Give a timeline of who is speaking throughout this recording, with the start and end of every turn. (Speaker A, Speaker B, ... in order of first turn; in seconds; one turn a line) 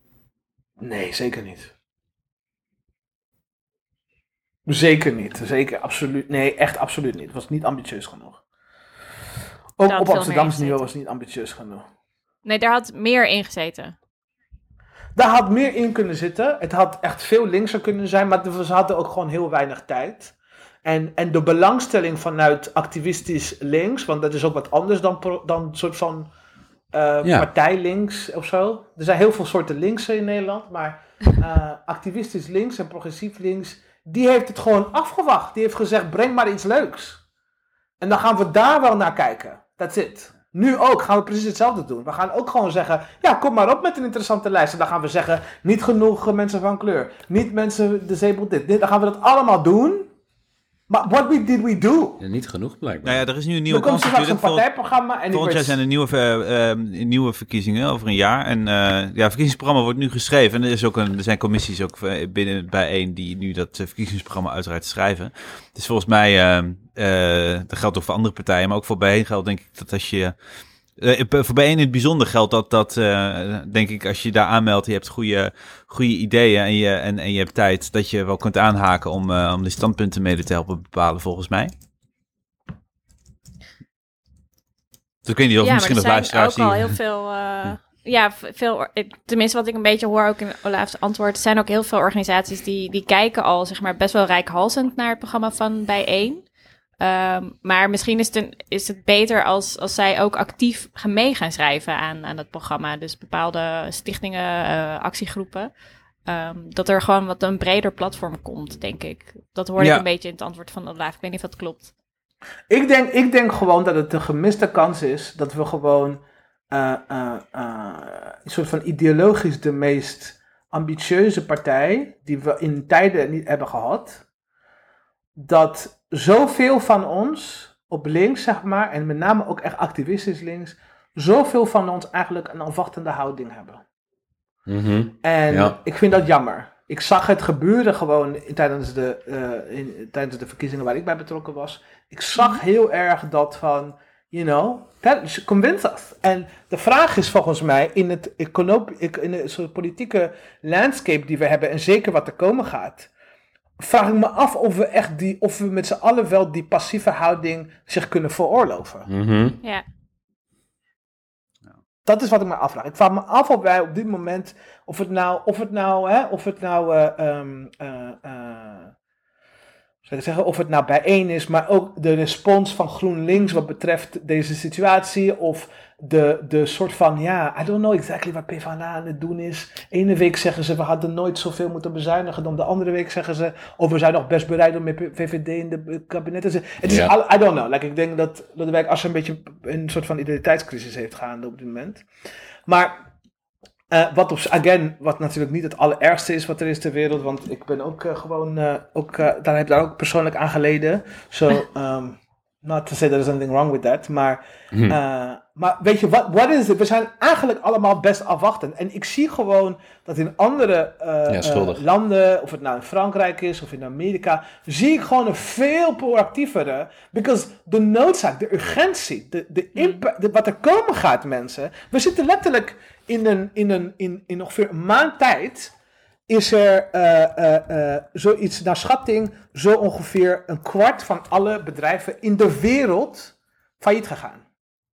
Speaker A: 0.8-1.7
Speaker A: 4.7-8.4
Speaker A: 9.8-11.8
Speaker B: 9.8-10.8
Speaker B: 12.4-13.9
Speaker A: 15.1-20.3
Speaker A: 20.8-26.3
Speaker A: 26.9-37.2
Speaker A: 38.0-50.1
Speaker A: 50.9-52.2
Speaker C: 52.2-53.2
Speaker D: 53.0-54.6
Speaker A: 53.7-55.8
Speaker D: 55.3-70.3
Speaker D: 71.0-81.7
Speaker D: 85.2-86.9
Speaker B: 85.6-96.4
Speaker B: 97.0-105.7
Speaker B: 106.3-111.9
Speaker A: 112.7-116.2
Speaker A: 116.7-124.2
Speaker A: 125.3-133.8
Speaker C: 134.7-135.7
Speaker A: 135.2-153.1
Speaker A: 153.8-159.1
Speaker C: 159.1-159.6
Speaker A: 162.0-168.9
Speaker A: 170.0-192.0
Speaker C: 186.8-187.1
Speaker A: 192.7-193.0
Speaker A: 193.9-225.7
Speaker C: 204.7-205.0
Speaker C: 211.3-211.8
Speaker A: 226.3-234.4